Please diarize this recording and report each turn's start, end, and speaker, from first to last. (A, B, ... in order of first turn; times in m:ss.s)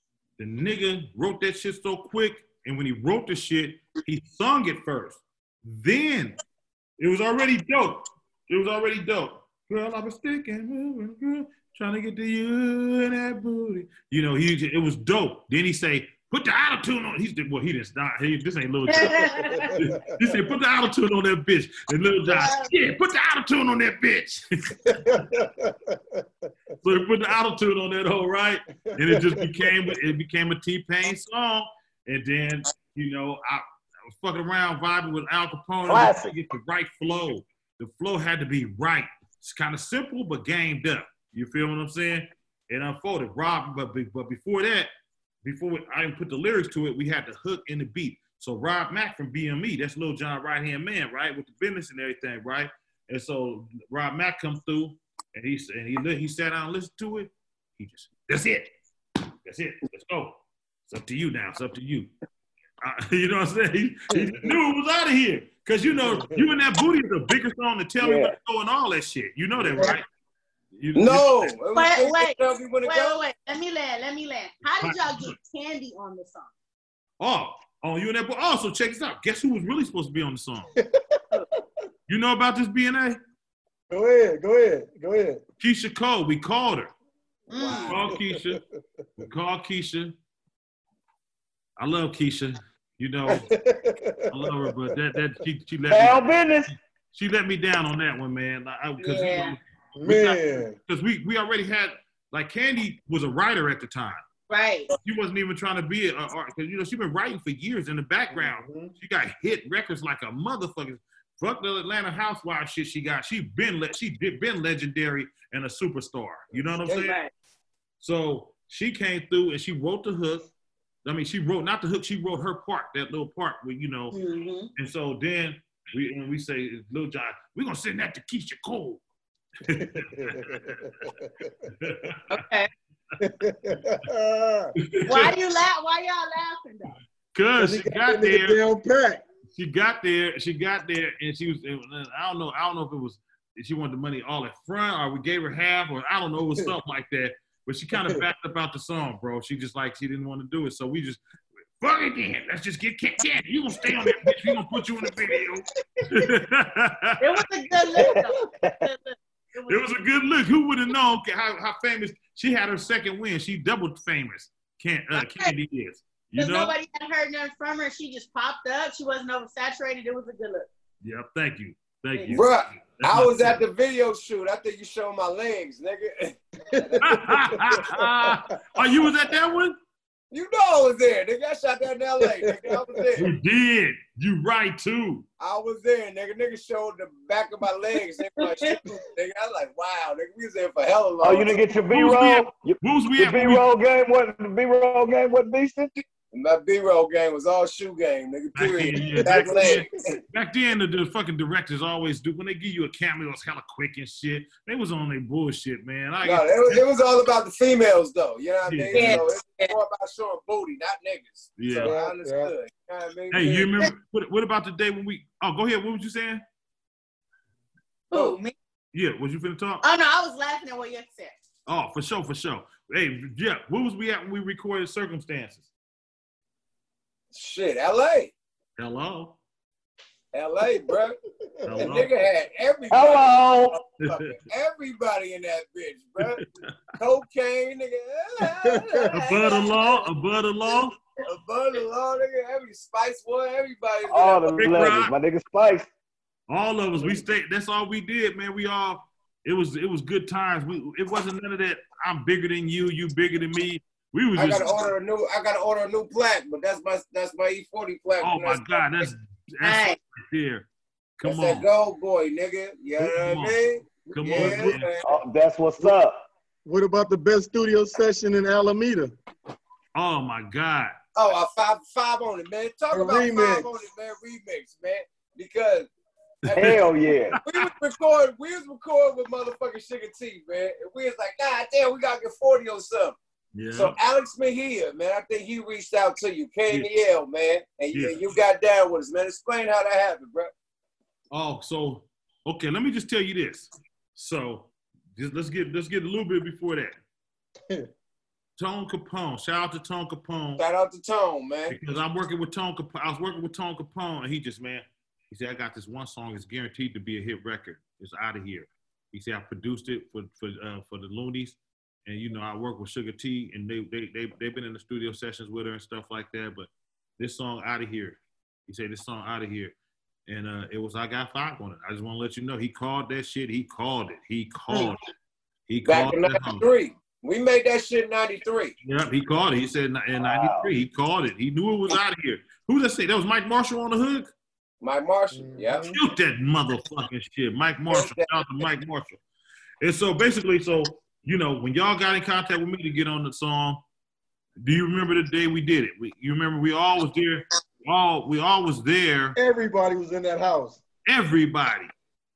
0:00.4-0:06.4 A
0:07.0-0:25.4 A
0:18.8-0:19.7 B
0:19.5-0:20.4 C
0:22.3-0:22.6 B
0:24.9-0:26.2 C
0:26.8-0:44.9 A
0:29.0-0:29.9 C
0:35.9-0:36.3 D
0:45.4-0:58.7 A
0:59.4-1:02.1 A
1:02.8-1:10.0 A
1:04.1-1:04.6 C
1:05.9-1:06.5 C
1:08.0-1:08.3 D
1:09.6-1:10.0 C
1:10.7-1:11.5 A
1:10.9-1:13.2 E
1:11.7-1:16.5 B
1:14.8-1:15.4 A
1:17.2-1:20.7 A
1:20.8-1:21.2 C
1:22.1-1:23.2 A
1:23.9-1:25.4 C
1:25.6-1:26.9 A
1:27.5-1:27.9 B
1:27.5-1:28.0 E
1:27.9-1:28.6 A
1:27.9-1:28.6 C
1:29.2-1:30.2 A
1:31.8-1:33.5 A
1:33.3-1:35.1 C
1:34.3-1:44.2 A
1:35.9-1:36.7 D
1:39.0-1:39.6 B
1:40.0-1:40.8 C
1:44.5-1:44.9 B
1:44.9-1:57.2 A
1:48.3-1:48.9 C
1:56.8-1:57.3 B
1:58.0-2:00.5 A
2:01.0-2:04.2 A
2:04.1-2:04.7 B
2:04.8-2:09.0 A
2:09.6-2:10.8 A
2:09.8-2:11.7 C
2:11.8-2:12.4 A
2:12.3-2:12.7 B
2:13.2-2:14.7 C
2:14.8-2:15.4 A
2:15.1-2:17.0 B
2:17.3-2:18.6 A
2:17.5-2:19.2 C
2:19.5-2:31.2 A
2:28.0-2:28.2 C
2:31.8-2:37.5 A
2:33.8-2:34.5 C
2:37.2-2:40.1 B
2:38.0-2:38.2 C
2:38.0-2:38.8 D
2:39.7-2:46.8 A
2:45.2-2:45.5 B
2:46.4-2:50.7 B
2:51.0-2:53.6 A
2:52.1-2:52.4 B
2:52.3-2:57.0 E
2:56.7-2:59.1 C
2:57.0-2:59.8 A
3:00.3-3:03.3 E
3:02.2-3:03.1 C
3:03.2-3:05.2 A
3:05.4-3:11.6 E
3:08.4-3:08.8 B
3:11.2-3:16.0 D
3:11.9-3:13.7 A
3:16.3-3:20.2 E
3:18.5-3:26.8 A
3:18.9-3:19.8 C
3:26.2-3:33.7 E
3:28.6-3:29.2 A
3:28.9-3:29.7 B
3:31.6-3:31.9 A
3:31.7-3:32.5 C
3:33.3-3:36.4 A
3:38.1-3:38.5 B
3:38.9-3:39.8 A
3:39.8-3:41.3 B
3:41.7-3:45.7 A
3:47.3-3:48.3 E
3:48.8-3:49.4 A
3:50.3-3:51.2 E
3:50.6-3:51.0 C
3:51.6-3:52.0 C
3:51.7-3:52.1 A
3:51.8-3:56.4 E
3:52.9-3:53.8 D
3:54.0-3:54.3 A
3:57.0-4:00.0 E
3:58.4-3:59.6 C
3:59.1-4:00.9 A
4:01.2-4:04.5 E
4:04.1-4:05.9 D
4:04.5-4:05.1 A
4:06.5-4:14.7 A
4:14.4-4:19.1 E
4:18.2-4:20.6 A
4:19.6-4:20.0 B
4:21.2-4:21.7 A
4:21.2-4:25.1 E
4:23.0-4:23.6 A
4:24.0-4:24.8 C
4:24.1-4:24.9 A
4:25.0-4:26.2 D
4:26.6-4:29.1 C
4:29.9-4:31.0 A
4:31.1-4:35.9 E
4:32.9-4:33.7 C
4:36.4-4:36.8 E
4:36.5-4:36.8 A
4:36.6-4:37.4 D
4:37.3-4:37.7 A
4:37.4-4:43.2 E
4:43.5-4:44.0 A
4:43.7-4:50.5 E
4:47.9-4:48.2 A
4:51.3-4:57.0 A
4:58.6-5:00.6 A
5:00.6-5:01.8 E
5:01.7-5:19.7 A
5:20.3-5:25.0 A
5:25.7-5:26.6 A
5:25.8-5:28.7 E
5:28.8-5:34.3 A
5:30.2-5:30.7 D
5:34.8-5:35.9 E
5:35.3-5:36.0 C
5:35.9-5:39.2 A
5:37.9-5:38.3 E
5:39.8-5:43.8 A
5:44.6-5:49.3 A
5:49.4-5:50.8 C
5:51.1-5:51.9 A